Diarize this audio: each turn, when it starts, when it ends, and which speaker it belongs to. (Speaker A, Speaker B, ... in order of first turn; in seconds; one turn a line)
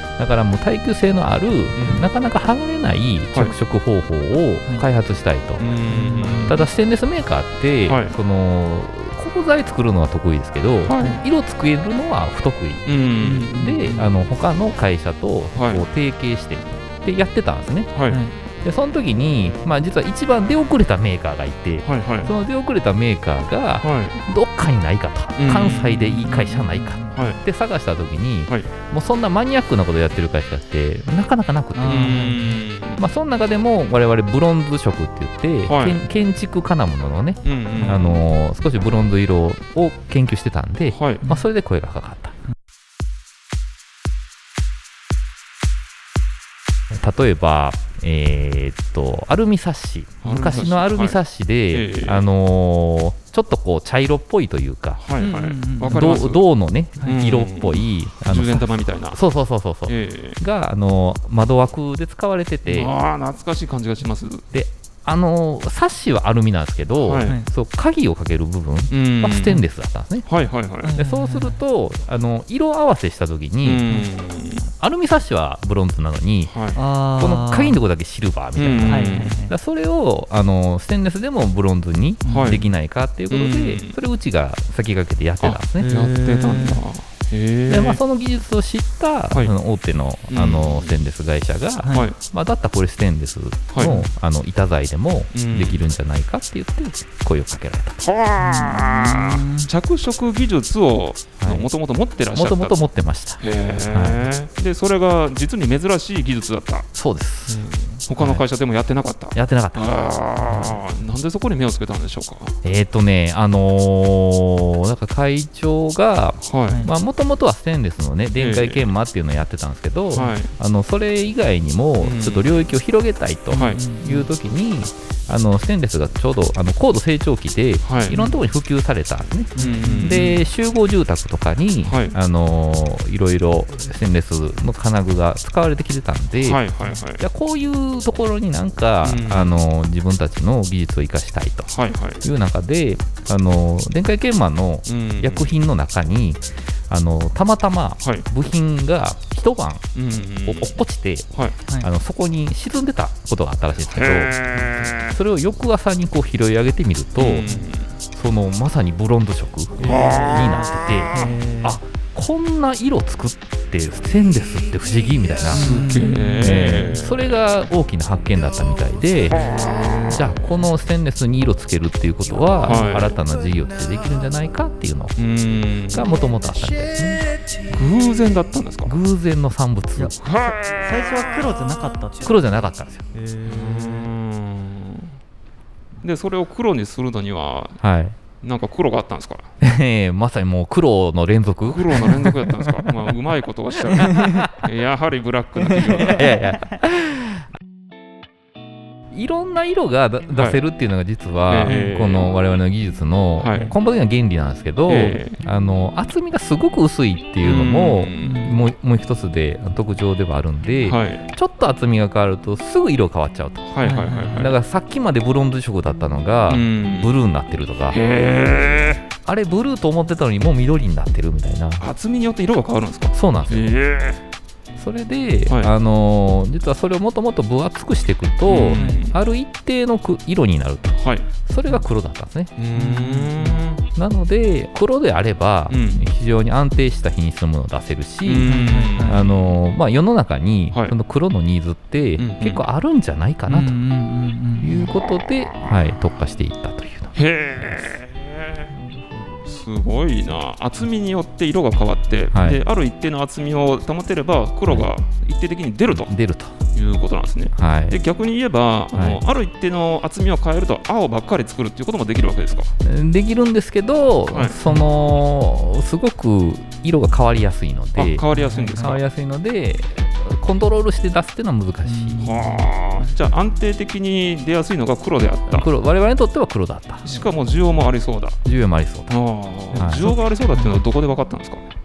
Speaker A: 0.2-5.6
Speaker B: 1.7-2.1
Speaker B: 3.3-3.6
Speaker B: 5.6-6.6
Speaker C: 5.9-6.7
Speaker A: 6.5-12.9
Speaker B: 7.9-8.2
Speaker B: 10.8-11.2
Speaker B: 12.8-13.7
Speaker C: 13.2-14.1
Speaker A: 13.4-17.9
Speaker B: 15.5-15.8
Speaker B: 17.9-18.2
Speaker C: 18.1-18.4
Speaker A: 18.6-32.3
Speaker B: 21.8-22.3
Speaker B: 23.8-24.2
Speaker B: 25.4-26.2
Speaker C: 26.1-27.3
Speaker B: 27.1-27.4
Speaker C: 31.7-32.6
Speaker B: 31.8-33.0
Speaker A: 33.0-42.3
Speaker B: 35.6-36.0
Speaker B: 37.4-38.2
Speaker C: 37.8-38.0
Speaker B: 40.9-41.2
Speaker A: 46.9-55.0
Speaker B: 50.2-52.3
Speaker B: 55.0-56.4
Speaker C: 55.2-56.1
Speaker A: 55.8-62.9
Speaker B: 57.0-59.2
Speaker B: 59.9-60.4
Speaker B: 62.6-64.4
Speaker A: 64.5-70.3
Speaker B: 67.0-67.3
Speaker B: 68.9-69.6
Speaker B: 70.2-70.9
Speaker C: 70.8-71.6
Speaker A: 70.9-73.9
Speaker B: 73.6-74.7
Speaker A: 74.8-76.5
Speaker B: 76.5-76.8
Speaker C: 76.7-77.8
Speaker A: 77.2-85.9
Speaker B: 78.5-79.4
Speaker C: 78.8-79.5
Speaker C: 82.2-82.6
Speaker B: 82.2-82.6
Speaker B: 83.3-84.0
Speaker B: 85.4-88.0
Speaker C: 85.8-86.8
Speaker A: 87.7-98.0
Speaker B: 90.3-91.0
Speaker C: 91.8-92.1
Speaker B: 91.9-92.2
Speaker B: 93.7-94.0
Speaker B: 95.3-95.8
Speaker B: 98.0-102.8
Speaker C: 98.4-99.7
Speaker A: 101.4-101.7
Speaker A: 102.3-104.2
Speaker B: 103.4-106.8
Speaker A: 106.9-107.6
Speaker C: 107.5-108.0
Speaker B: 108.1-112.5
Speaker A: 108.2-108.4
Speaker A: 109.3-110.8
Speaker A: 112.6-136.6
Speaker B: 116.4-116.8
Speaker C: 116.7-116.9
Speaker B: 118.3-118.9
Speaker C: 120.1-120.3
Speaker B: 120.1-120.5
Speaker B: 122.0-122.7
Speaker C: 123.5-124.3
Speaker B: 123.5-123.8
Speaker B: 127.8-128.2
Speaker C: 128.1-128.4
Speaker B: 129.6-130.4
Speaker C: 129.6-130.4
Speaker B: 131.8-132.1
Speaker B: 136.4-137.2
Speaker A: 137.2-141.7
Speaker B: 139.0-139.6
Speaker B: 141.7-142.2
Speaker A: 142.2-149.9
Speaker B: 144.8-145.5
Speaker B: 148.0-148.3
Speaker B: 149.9-150.8
Speaker A: 150.4-154.4
Speaker B: 153.9-155.2
Speaker A: 154.9-157.5
Speaker B: 157.2-157.9
Speaker A: 158.1-165.8
Speaker C: 159.8-161.8
Speaker B: 159.8-161.3
Speaker B: 165.5-167.2
Speaker C: 165.5-166.6
Speaker A: 166.4-169.4
Speaker B: 169.3-170.4
Speaker C: 169.7-170.2
Speaker A: 170.1-175.2
Speaker B: 172.6-173.2
Speaker B: 175.2-176.1
Speaker A: 175.9-177.2
Speaker B: 177.7-178.9
Speaker A: 178.8-180.2
Speaker C: 179.9-182.2
Speaker B: 180.2-181.4
Speaker A: 182.2-183.0
Speaker C: 183.1-184.1
Speaker B: 183.4-185.1
Speaker B: 186.0-187.8
Speaker A: 187.8-188.2
Speaker B: 188.4-189.5
Speaker A: 189.6-192.9
Speaker B: 191.6-196.2
Speaker A: 193.9-194.5
Speaker C: 193.9-194.4
Speaker A: 195.7-197.4
Speaker C: 196.1-196.4
Speaker A: 199.1-213.7
Speaker B: 200.3-200.6
Speaker B: 201.5-202.3
Speaker C: 201.7-201.9
Speaker B: 203.4-203.7
Speaker B: 204.8-205.4
Speaker B: 207.4-208.5
Speaker C: 208.2-208.6
Speaker B: 210.8-211.2
Speaker B: 213.7-214.5
Speaker C: 213.8-214.5
Speaker A: 214.3-218.0
Speaker B: 216.5-217.1
Speaker B: 217.9-219.0
Speaker A: 219.2-221.8
Speaker B: 221.8-224.2
Speaker A: 223.1-223.7
Speaker A: 224.8-232.5
Speaker B: 228.4-229.2
Speaker C: 228.7-229.1
Speaker B: 231.0-231.3
Speaker B: 232.6-233.8
Speaker C: 232.7-233.6
Speaker A: 233.9-243.8
Speaker B: 235.7-236.1
Speaker B: 238.2-239.6
Speaker C: 238.4-239.2
Speaker B: 242.2-242.6
Speaker C: 243.4-244.8
Speaker A: 244.6-247.1
Speaker B: 245.2-245.7
Speaker B: 247.1-248.7
Speaker C: 248.7-249.4
Speaker B: 249.4-256.1
Speaker A: 252.3-252.6
Speaker A: 255.9-256.6
Speaker B: 256.7-262.7
Speaker A: 257.5-258.0
Speaker A: 258.9-259.2
Speaker A: 262.8-268.2
Speaker B: 264.3-264.6
Speaker B: 267.9-269.0
Speaker C: 268.3-269.0
Speaker A: 268.8-272.3
Speaker C: 271.8-273.3
Speaker B: 272.2-275.7
Speaker A: 275.5-277.1
Speaker B: 277.0-278.4
Speaker A: 278.4-279.1
Speaker B: 279.1-281.6
Speaker A: 279.7-280.2
Speaker C: 280.0-280.8